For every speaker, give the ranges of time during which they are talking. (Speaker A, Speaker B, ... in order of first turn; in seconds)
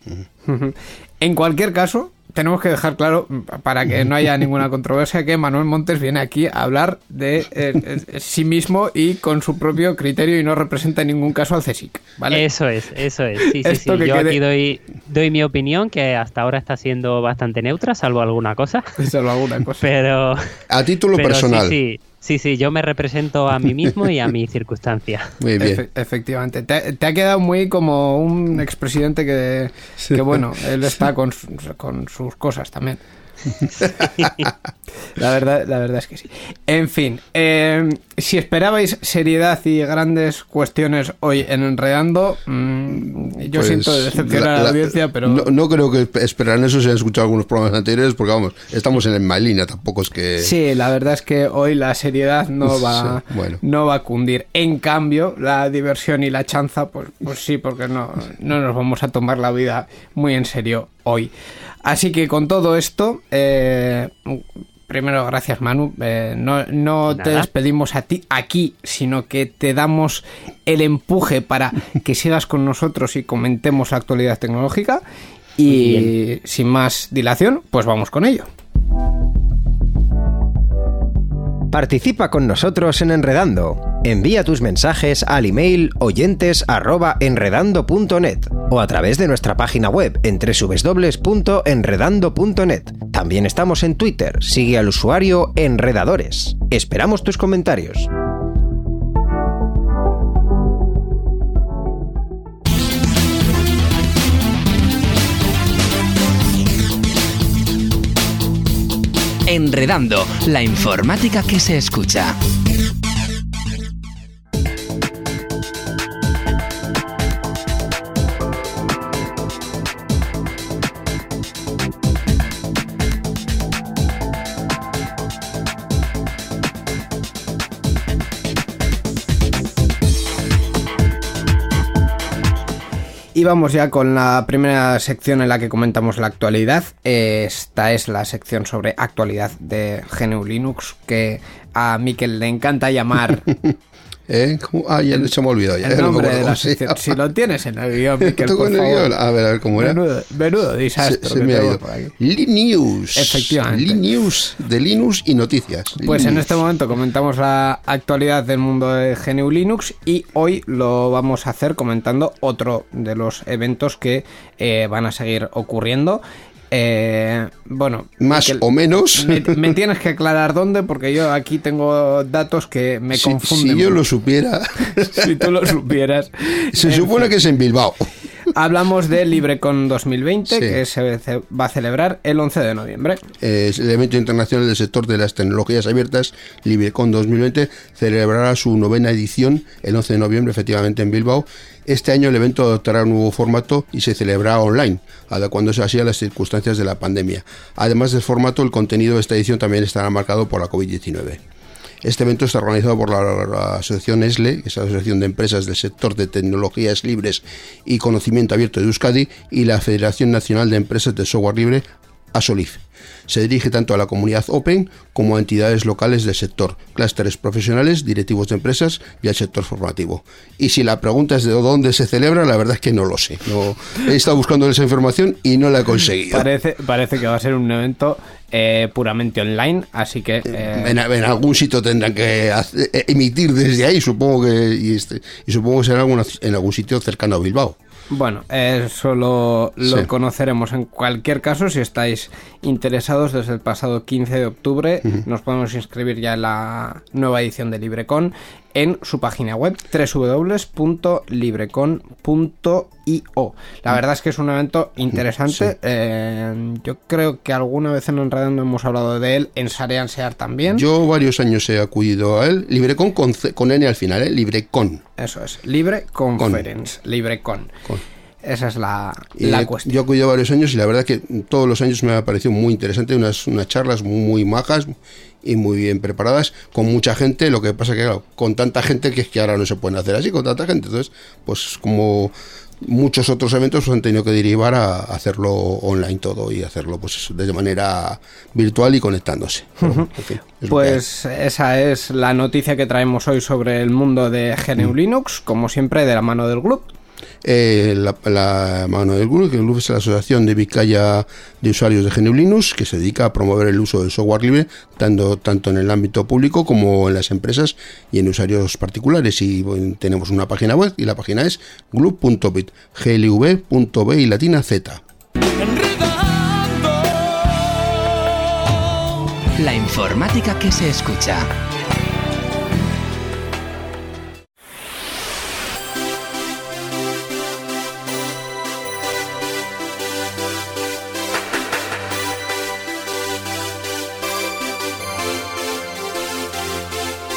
Speaker A: 0.5-12.4, 13.5-14.4, 19.0-19.8, 25.6-33.0, 35.1-45.5, 50.4-61.3, 61.8-75.0, 75.6-78.5, 133.3-143.5, 145.8-149.1, 149.8-152.1, 153.2-154.0, 156.0-174.0, 174.9-177.3, 178.5-183.2, 226.3-231.0, 238.1-260.9, 265.2-267.7, 268.4-269.9, 289.8-290.1, 290.7-296.9
Speaker B: 12.3-18.9, 19.8-20.5, 21.1-25.3, 67.1-67.5, 75.7-76.1
Speaker C: 20.7-21.8, 25.4-25.8, 43.5-50.5, 52.7-53.6, 144.3-147.2, 148.2-150.0, 151.0-156.5, 168.2-169.7, 173.1-175.4, 176.7-178.1, 180.5-180.8, 183.4-201.4, 202.0-226.5, 230.5-237.8, 260.7-265.0, 266.4-266.6, 269.4-291.0, 297.4-315.0
Speaker D: 81.7-98.1
Speaker E: 109.5-112.4, 319.6-321.5